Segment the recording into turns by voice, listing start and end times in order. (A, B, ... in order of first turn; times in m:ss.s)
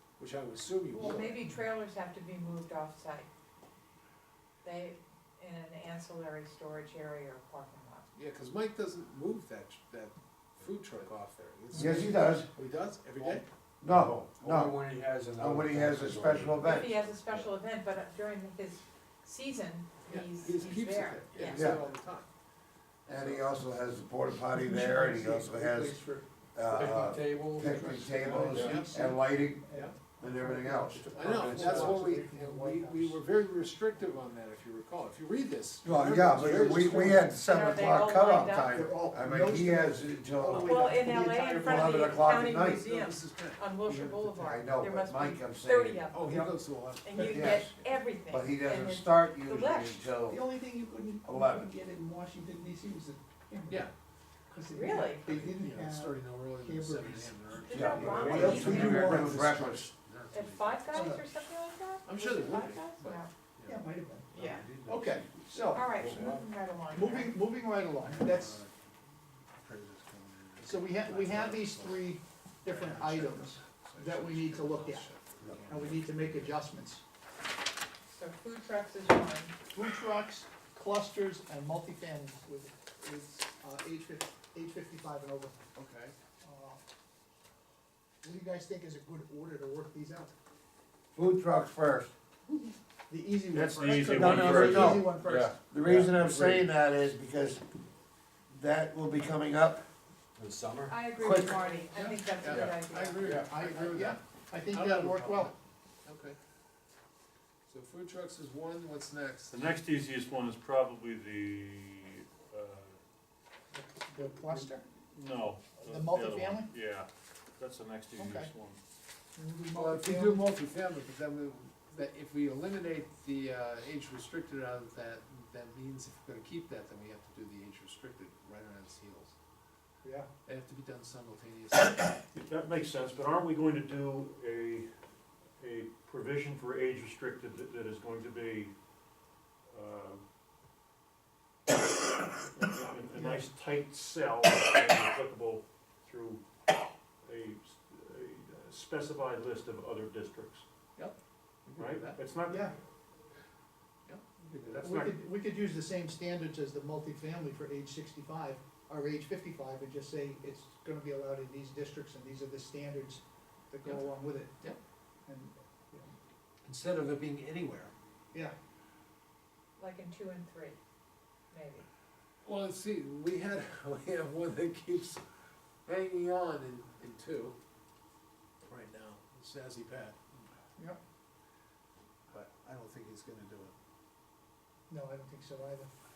0:00.2-0:01.4 A
0:00.9-0:03.3 B
0:04.6-0:08.1 B
0:08.1-0:13.4 A
0:11.7-0:12.5 C
0:11.8-0:12.1 D
0:13.2-0:17.5 D
0:13.8-0:14.8 C
0:15.4-0:17.0 C
0:16.6-0:21.8 B
0:20.0-0:22.3 A
0:21.5-0:21.8 C
0:23.0-0:23.5 A
0:23.1-0:26.0 C
0:24.5-0:26.9 E
0:26.5-0:31.4 C
0:26.7-0:28.9 D
0:27.6-0:33.2 E
0:28.5-0:28.9 A
0:29.7-0:30.0 A
0:31.1-0:32.2 D
0:31.1-0:37.3 A
0:35.8-0:42.8 C
0:36.4-0:37.1 D
0:37.2-0:38.8 B
0:38.7-0:42.1 E
0:40.6-0:50.1 B
0:42.8-0:44.1 A
0:44.1-0:46.4 C
0:46.1-0:47.8 A
0:47.2-0:47.7 C
0:48.3-0:50.5 C
0:50.3-0:53.9 E
0:51.2-0:51.7 C
0:54.5-0:59.6 E
0:54.7-0:55.3 B
0:55.2-1:01.0 A
0:57.6-0:59.1 B
0:57.7-0:59.9 C
0:58.1-0:59.9 D
1:00.3-1:03.3 B
1:00.9-1:01.3 E
1:02.0-1:03.8 A
1:03.6-1:04.3 E
1:04.3-1:04.7 B
1:04.3-1:06.4 D
1:04.8-1:06.2 E
1:05.7-1:07.5 B
1:06.9-1:08.6 E
1:08.0-1:08.7 D
1:08.2-1:08.6 A
1:09.6-1:12.1 A
1:10.6-1:15.1 E
1:12.6-1:16.4 A
1:15.4-1:15.8 D
1:15.7-1:17.0 E
1:18.1-1:19.5 B
1:19.7-1:25.6 E
1:25.7-1:26.1 A
1:26.4-1:26.8 E
1:28.2-1:30.3 E
1:31.1-1:32.1 C
1:33.1-1:35.5 E
1:33.5-1:34.9 F
1:34.0-1:37.6 C
1:34.8-1:36.7 D
1:38.5-1:39.8 C
1:40.4-1:41.9 D
1:40.9-1:43.3 B
1:41.9-1:46.4 A
1:42.4-1:44.1 D
1:43.3-1:45.5 E
1:47.7-1:49.7 A
1:49.5-1:53.0 F
1:53.7-1:54.8 E
1:55.1-1:58.8 F
1:55.8-1:56.7 E
1:58.2-1:58.5 E
1:59.4-2:00.5 E
1:59.7-2:09.3 A
2:10.0-2:10.3 E
2:10.4-2:12.1 A
2:12.3-2:14.9 F
2:15.6-2:18.7 F
2:19.7-2:20.2 F
2:22.5-2:26.4 F
2:23.1-2:23.5 E
2:27.2-2:30.6 F
2:31.0-2:32.2 A
2:31.8-2:32.6 F
2:32.5-2:32.7 E
2:34.0-2:35.0 A
2:34.7-2:35.1 F
2:34.8-2:44.6 E
2:45.2-2:46.1 E
2:46.6-2:47.9 A
2:49.8-2:50.8 B
2:51.5-2:51.8 B
2:52.4-2:55.2 A
2:55.8-2:57.6 A
2:58.7-3:00.5 A
3:02.3-3:03.7 A
3:04.9-3:05.9 E